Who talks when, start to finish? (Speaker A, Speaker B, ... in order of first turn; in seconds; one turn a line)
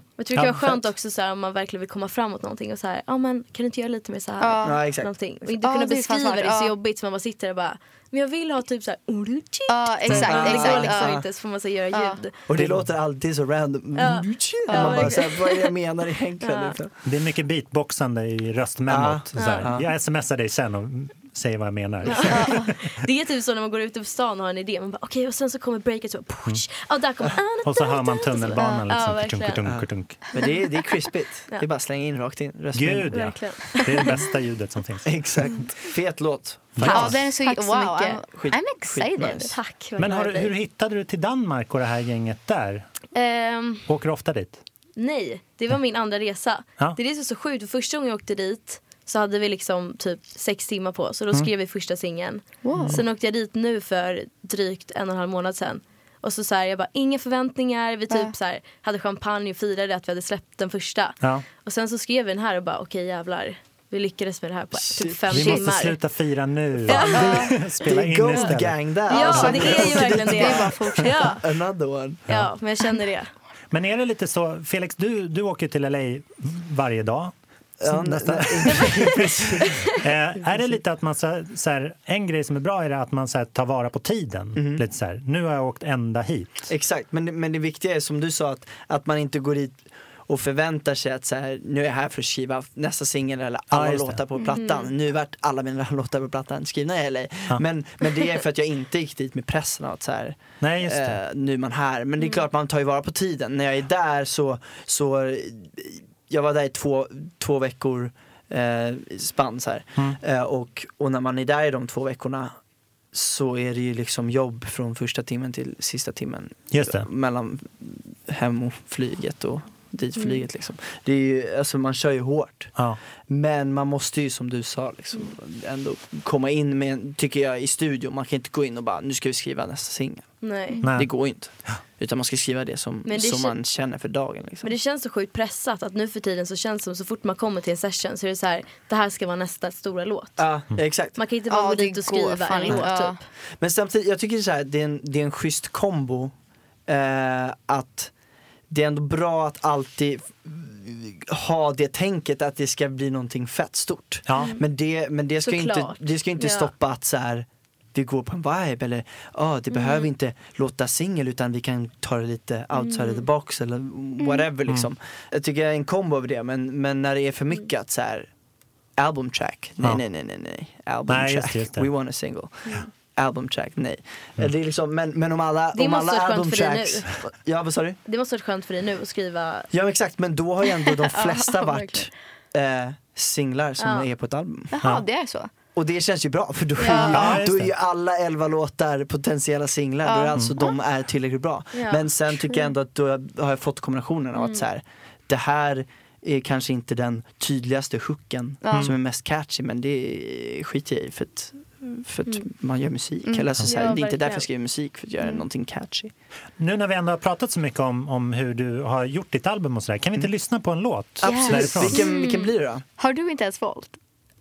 Speaker A: 0.2-12.4
Speaker B: 0.4-0.9
Speaker C: 4.4-4.8
Speaker B: 4.6-5.1
Speaker C: 5.5-6.7
Speaker C: 9.7-11.2
Speaker D: 10.1-10.8
Speaker B: 10.2-11.2
Speaker C: 11.9-12.2
Speaker B: 12.5-16.9
Speaker D: 12.5-12.9
Speaker A: 14.0-15.7
Speaker C: 14.7-15.2
Speaker A: 16.4-16.8
Speaker D: 17.1-22.6
Speaker B: 18.9-19.9
Speaker A: 19.4-19.7
Speaker A: 22.1-29.6
Speaker C: 22.3-22.7
Speaker D: 27.6-30.2
Speaker B: 29.6-33.4
Speaker D: 32.8-35.2
Speaker A: 33.1-34.3
Speaker B: 35.0-37.1
Speaker D: 36.8-37.2
Speaker A: 36.8-38.2
Speaker C: 36.8-39.5
Speaker B: 38.3-39.6
Speaker A: 39.5-40.5
Speaker D: 40.0-42.9
Speaker A: 43.1-43.9
Speaker D: 43.9-44.6
Speaker A: 45.0-66.0
Speaker C: 52.6-53.0
Speaker B: 52.7-53.0
Speaker B: 64.7-65.7
Speaker D: 65.3-69.9
Speaker A: 66.8-67.6
Speaker C: 67.1-67.5
Speaker B: 67.2-72.2
Speaker A: 69.1-71.5
Speaker C: 69.2-71.4
Speaker A: 72.3-73.3
Speaker D: 73.7-86.7
Speaker B: 77.8-79.9
Speaker A: 79.7-80.0
Speaker B: 84.5-84.8
Speaker B: 86.7-112.6
Speaker D: 93.7-94.2
Speaker A: 94.4-94.9
Speaker D: 100.6-101.2
Speaker B: 113.1-122.8
Speaker D: 116.7-117.1
Speaker B: 123.3-130.3
Speaker A: 130.4-130.8
Speaker D: 130.8-131.1
Speaker B: 130.9-134.7
Speaker A: 133.1-133.6
Speaker A: 134.6-140.4
Speaker B: 140.4-141.2
Speaker A: 141.2-143.2
Speaker C: 141.5-143.2
Speaker B: 143.6-146.3
Speaker B: 146.9-148.1
Speaker B: 148.7-168.3
Speaker D: 154.3-154.6
Speaker A: 154.3-154.6
Speaker A: 155.4-156.7
Speaker A: 159.7-160.1
Speaker A: 162.8-163.3
Speaker B: 169.0-178.0
Speaker D: 171.1-171.9
Speaker A: 175.7-177.2
Speaker A: 178.1-179.7
Speaker B: 179.7-184.8
Speaker C: 181.0-182.1
Speaker A: 183.8-184.1
Speaker C: 184.7-185.5
Speaker B: 185.8-206.1
Speaker A: 186.8-187.4
Speaker C: 186.8-187.3
Speaker D: 187.1-187.7
Speaker C: 190.1-190.8
Speaker A: 191.7-192.1
Speaker A: 194.4-194.6
Speaker C: 198.6-198.9
Speaker C: 203.2-203.5
Speaker A: 203.6-204.5
Speaker D: 206.6-212.1
Speaker B: 211.2-212.8
Speaker C: 211.2-212.0
Speaker A: 212.0-212.5
Speaker C: 213.0-214.0